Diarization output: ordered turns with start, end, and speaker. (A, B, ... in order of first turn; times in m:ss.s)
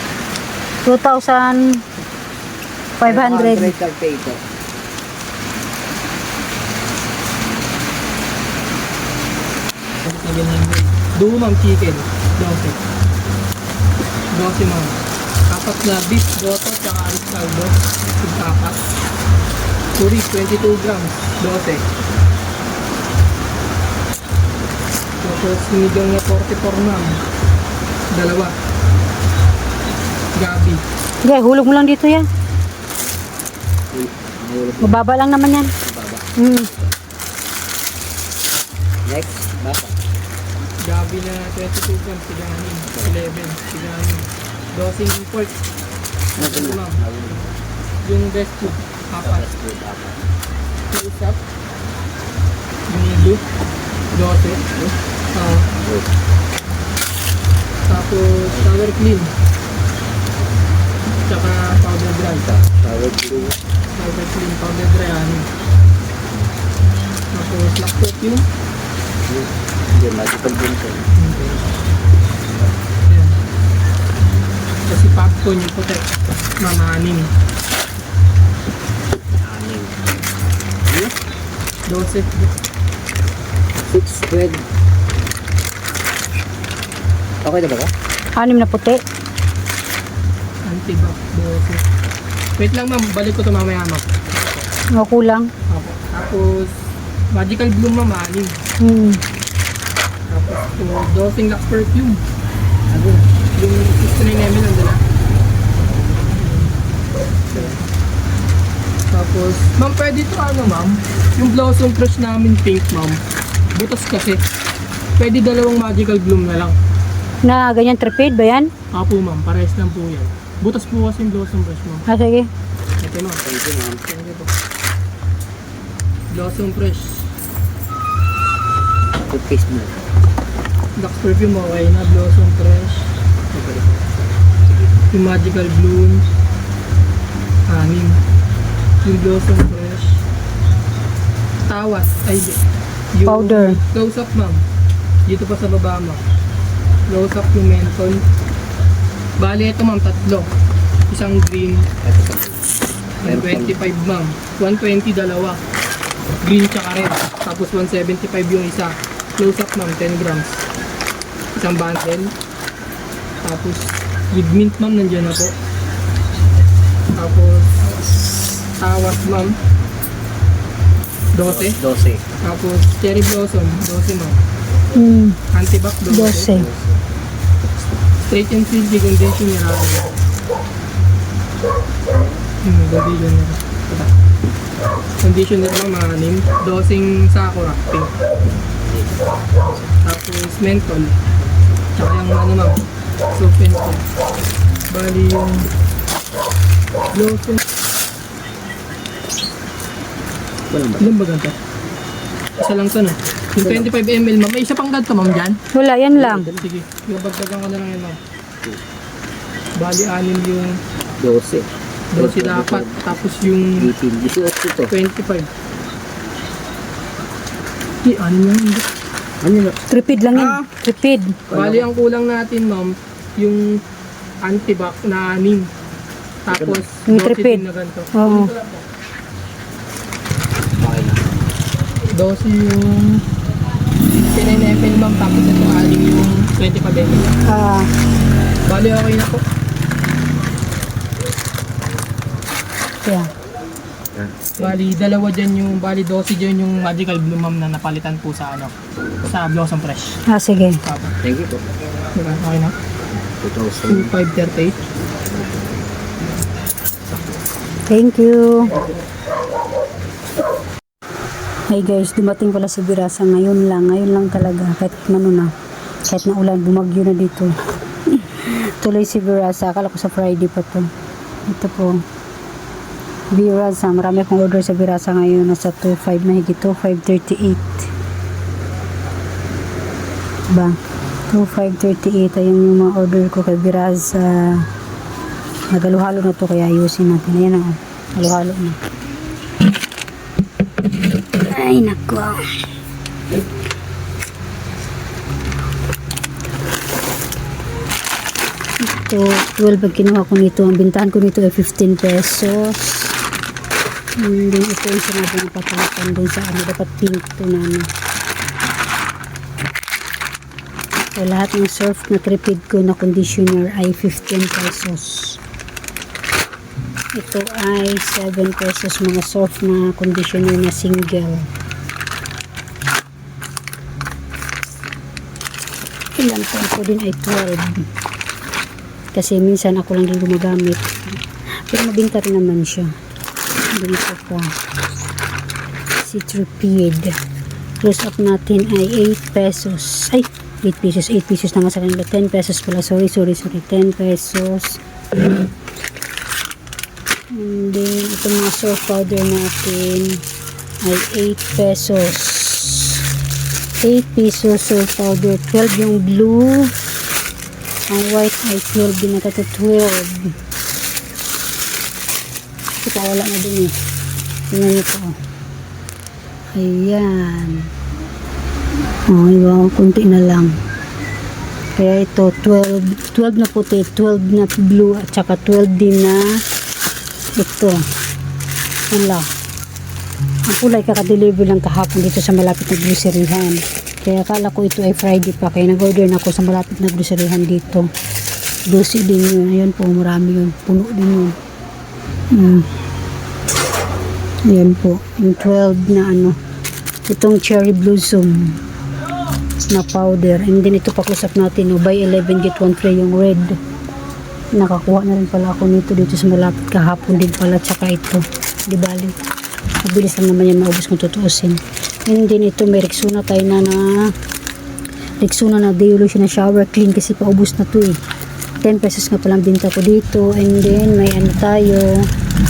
0:00.8-0:01.8 A
0:03.0-0:03.8 A
0:03.0-0:04.4 B
0:10.0-0:12.8 C
0:14.3-0:18.8 C
0:20.0-0:21.8 C
0:25.2-0:27.2 C
0:28.1-0:28.5 C
0:30.4-0:30.8 C
0:31.2-0:32.3 A
0:33.9-0:35.0 B
0:34.8-0:35.7 A
0:35.8-0:36.3 B
0:36.4-0:36.7 A
0:39.1-0:40.0 B
0:40.8-0:45.6 C
0:46.4-0:47.5 C
0:46.4-0:47.4 B
0:48.0-0:49.5 C
0:49.2-0:50.2 B
0:50.9-0:51.4 C
0:52.9-0:53.4 C
0:54.1-0:54.6 C
0:55.3-0:55.7 C
0:57.9-0:59.3 C
1:01.3-1:02.5 C
1:02.5-1:03.6 B
1:04.0-1:05.5 C
1:07.3-1:08.4 C
1:09.3-1:11.0 B
1:11.2-1:11.6 C
1:13.1-1:13.3 C
1:14.9-1:16.1 C
1:16.6-1:17.3 C
1:19.3-1:20.0 B
1:20.9-1:21.1 B
1:21.9-1:22.5 C
1:23.9-1:24.6 B
1:27.4-1:27.9 B
1:28.4-1:29.0 A
1:30.6-1:31.8 C
1:32.6-1:34.7 C
1:35.0-1:35.5 A
1:35.7-1:36.8 C
1:37.3-1:38.5 C
1:38.8-1:39.2 A
1:40.3-1:42.2 C
1:42.9-1:43.2 B
1:43.6-1:45.0 C
1:46.4-1:46.7 C
1:47.5-1:47.8 C
1:49.1-1:53.2 C
1:53.8-1:54.4 C
1:55.2-1:56.8 C
1:57.4-1:58.7 A
1:58.9-2:02.0 C
2:02.1-2:02.5 A
2:03.0-2:03.4 C
2:03.4-2:04.1 B
2:04.1-2:04.5 C
2:06.3-2:07.3 C
2:09.3-2:10.0 B
2:11.0-2:13.9 C
2:15.1-2:16.2 C
2:17.7-2:18.2 C
2:19.0-2:20.2 C
2:21.7-2:24.6 C
2:23.3-2:23.8 A
2:25.3-2:26.2 C
2:27.1-2:28.2 C
2:29.4-2:30.5 C
2:31.1-2:31.9 C
2:32.0-2:32.6 B
2:33.2-2:33.8 B
2:33.2-2:35.6 C
2:36.4-2:40.6 C
2:41.5-2:42.3 C
2:43.4-2:45.5 C
2:47.2-2:47.7 C
2:48.8-2:49.6 C
2:51.3-2:51.8 C
2:51.4-2:52.2 B
2:52.4-2:54.4 C
2:54.9-2:55.4 A
2:55.5-2:56.5 C
2:56.1-2:56.7 A
2:56.6-2:56.9 B
2:58.3-3:00.1 C
3:02.6-3:04.1 C
3:05.2-3:08.1 C
3:10.0-3:11.2 C
3:12.0-3:14.0 C
3:14.9-3:15.7 C
3:17.1-3:17.6 C
3:20.7-3:21.1 B
3:21.0-3:21.5 C
3:22.6-3:25.6 C
3:23.6-3:23.9 B
3:25.7-3:26.5 A
3:26.2-3:26.6 B
3:26.6-3:28.2 C
3:29.8-3:30.8 C
3:31.2-3:34.9 B
3:32.1-3:33.9 C
3:34.9-3:35.5 C
3:38.0-3:38.8 C
3:39.4-3:39.8 B
3:39.9-3:41.4 A
3:40.3-3:40.6 B
3:41.5-3:41.9 B
3:41.5-3:43.8 C
3:44.4-3:45.7 C
3:46.4-3:48.8 C
3:46.5-3:46.8 B
3:47.1-3:48.5 A
3:50.8-3:51.2 B
3:52.1-3:53.2 C
3:54.2-3:57.4 C
3:57.4-3:57.9 A
3:58.6-3:59.4 C
4:03.0-4:03.3 A
4:04.2-4:04.7 B
4:04.6-4:08.7 C
4:09.3-4:10.2 C
4:10.3-4:10.8 A
4:10.8-4:11.2 C
4:11.2-4:11.6 B
4:12.1-4:12.7 C
4:13.3-4:14.1 B
4:13.9-4:14.8 C
4:17.9-4:18.8 A
4:21.7-4:25.5 A
4:26.1-4:27.5 A
4:28.2-4:30.9 A
4:31.5-4:32.0 A
4:33.3-4:37.9 A
4:40.5-4:40.8 A
4:41.3-4:44.7 A
4:45.7-4:48.8 A
4:51.4-4:52.4 A
4:58.8-5:03.2 A
5:04.2-5:07.9 A
5:11.2-5:15.4 A
5:17.1-5:21.5 A
5:26.2-5:27.8 A
5:29.1-5:32.9 A
5:33.7-5:34.5 A
5:36.0-5:37.2 A
5:37.8-5:44.8 A
5:47.3-5:50.2 A
5:50.8-5:53.0 A
5:53.8-5:56.7 A
5:57.9-6:00.3 A
6:02.8-6:03.7 A
6:04.5-6:05.1 A
6:06.5-6:07.7 A
6:09.1-6:10.6 A
6:11.8-6:16.4 A
6:17.4-6:17.8 A
6:18.9-6:19.3 A
6:20.5-6:27.9 A
6:28.7-6:31.4 A
6:32.3-6:32.7 A
6:34.5-6:36.4 A
6:37.1-6:38.6 A
6:39.7-6:43.6 A
6:44.5-6:49.2 A
6:49.8-6:54.2 A
6:55.2-6:58.0 A
6:58.6-7:02.1 A